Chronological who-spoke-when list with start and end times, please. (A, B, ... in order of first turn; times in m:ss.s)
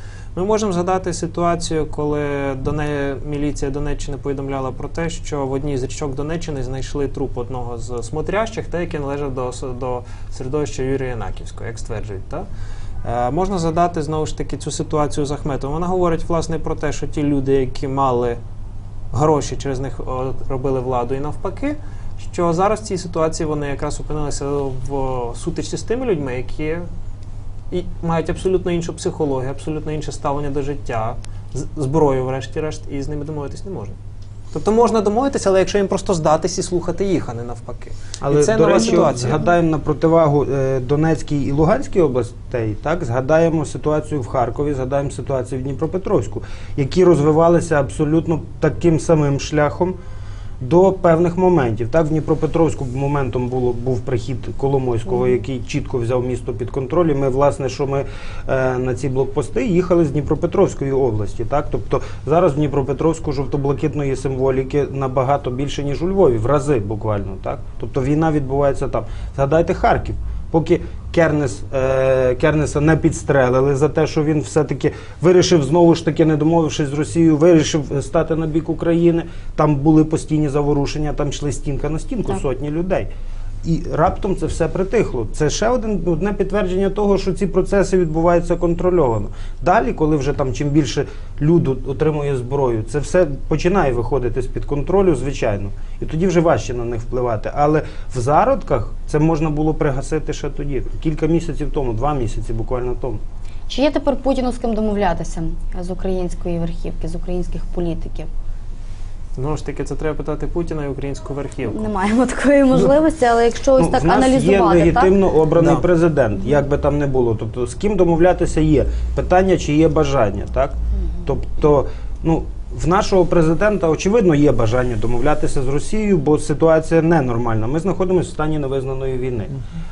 0:00.3-0:12.4 A
0:13.0-0:18.4 A
0:19.1-0:26.9 A
0:27.7-0:34.0 A
0:34.5-0:39.4 A
0:38.2-0:50.0 B
0:50.6-1:23.1 B
1:23.6-1:43.2 B
1:43.7-1:48.3 C
1:49.4-1:51.9 A
1:51.7-1:55.1 C
1:53.8-2:09.5 B
1:55.6-1:55.8 A